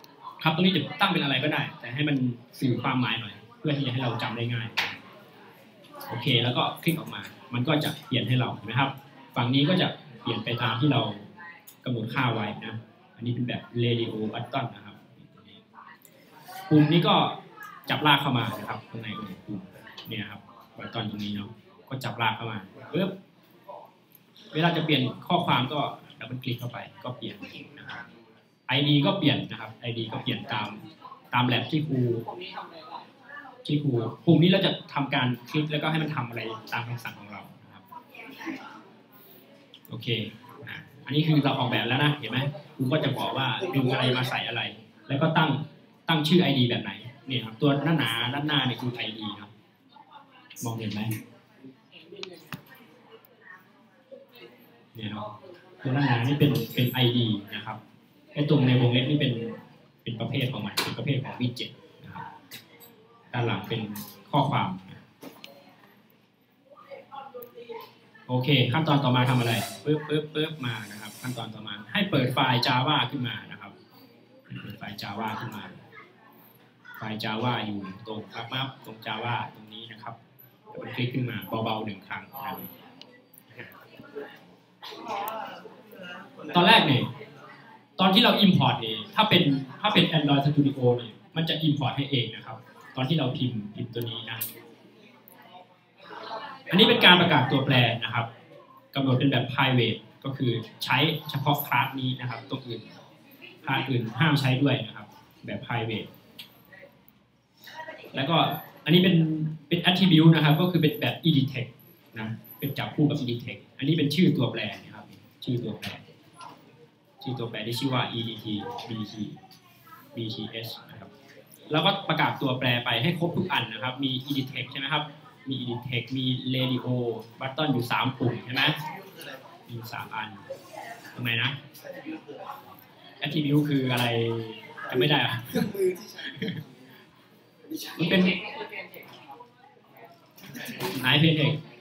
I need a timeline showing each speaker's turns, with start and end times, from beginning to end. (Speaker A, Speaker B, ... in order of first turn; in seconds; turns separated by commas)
Speaker A: 0.4-5.0, Speaker A: 6.1-11.3, Speaker A: 11.8-15.6, Speaker A: 16.7-23.1, Speaker A: 24.5-28.0, Speaker A: 28.7-32.3, Speaker B: 32.2-33.1, Speaker A: 33.6-37.8, Speaker A: 39.9-49.5, Speaker C: 43.6-44.3, Speaker A: 50.6-51.1, Speaker B: 51.9-52.5, Speaker A: 54.9-55.3, Speaker A: 55.8-57.8, Speaker A: 58.3-62.2, Speaker A: 63.3-65.0, Speaker A: 68.3-73.7, Speaker A: 74.5-75.7, Speaker A: 77.0-80.2, Speaker A: 80.7-82.7, Speaker A: 86.5-87.1, Speaker A: 88.0-94.4, Speaker A: 96.7-98.3, Speaker A: 98.9-102.9, Speaker A: 103.6-106.1, Speaker A: 108.1-116.0, Speaker A: 117.2-119.4, Speaker A: 120.1-121.1, Speaker A: 121.7-128.8, Speaker A: 129.7-130.4, Speaker A: 131.1-131.6, Speaker A: 133.2-135.7, Speaker C: 134.9-136.8, Speaker A: 136.3-136.6, Speaker C: 137.7-138.0, Speaker A: 137.9-138.4, Speaker B: 138.0-139.2, Speaker A: 140.6-141.6